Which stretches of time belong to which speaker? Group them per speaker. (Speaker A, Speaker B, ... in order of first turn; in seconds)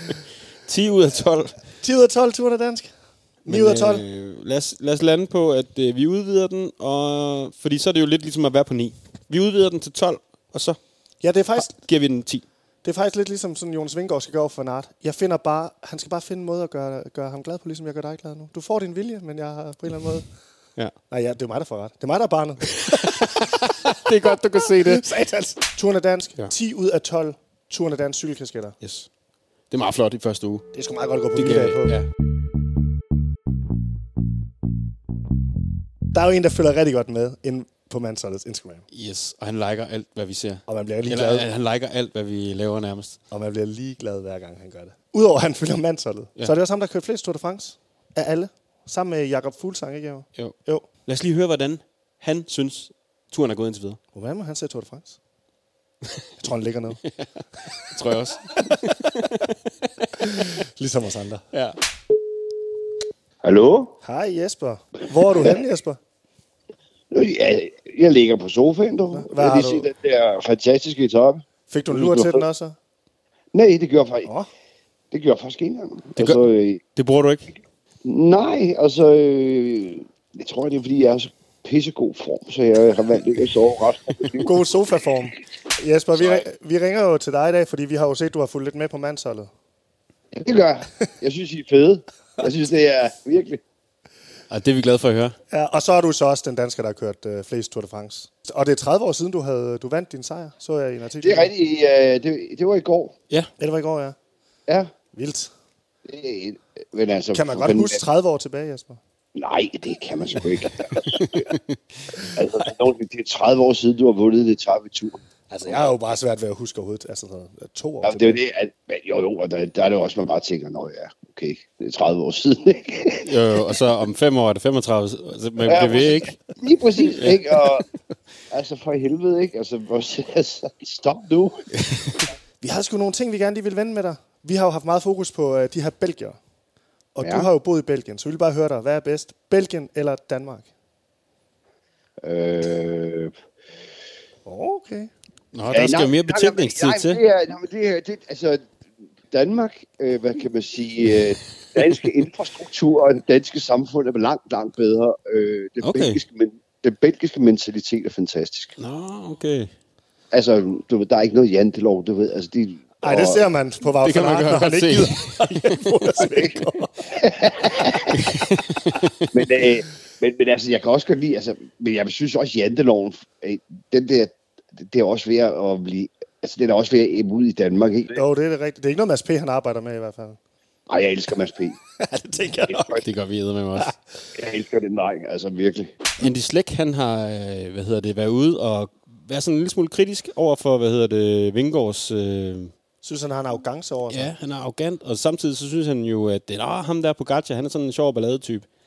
Speaker A: 0.7-1.6, 3.5-10.8, 11.6-12.4, 22.9-25.1, 28.8-29.1, 29.7-30.7, 31.4-32.1, 38.9-43.2, 50.4-54.0, 57.2-59.5, 76.2-77.5, 94.5-95.3, 111.2-111.8, 123.2-126.4, 145.5-147.2, 155.8-156.2, 158.8-159.7, 164.0-165.5, 168.2-169.3, 183.0-183.9, 186.2-192.7, 194.1-198.7
Speaker B: 1.8-2.9, 3.4-4.0, 11.2-11.7, 12.8-20.3, 21.1-23.3, 24.8-28.8, 30.7-32.0, 36.1-38.8, 40.7-41.4, 43.3-50.9, 54.1-55.2, 56.4-57.0, 60.2-61.4, 64.0-66.0, 69.1-69.9, 71.7-72.8, 84.4-89.5, 95.5-101.5, 103.6-104.2, 105.1-105.5, 107.3-109.0, 115.5-118.4, 132.6-136.4, 137.1-140.7, 144.4-145.1, 163.0-166.9, 178.1-180.4, 182.0-183.0, 193.0-194.3
Speaker C: 63.4-64.0, 67.1-72.4, 73.5-74.3, 75.1-76.8, 78.0-84.5, 86.1-86.4, 90.3-93.6, 101.2-103.1, 106.0-108.0, 109.3-111.5, 112.3-115.8, 118.0-123.3, 125.6-127.8, 128.5-131.6, 137.2-137.5, 142.2-143.3, 145.7-148.7, 149.3-158.8, 160.3-163.4, 167.1-168.2, 169.3-178.2, 180.9-181.8, 182.7-183.0, 184.3-185.9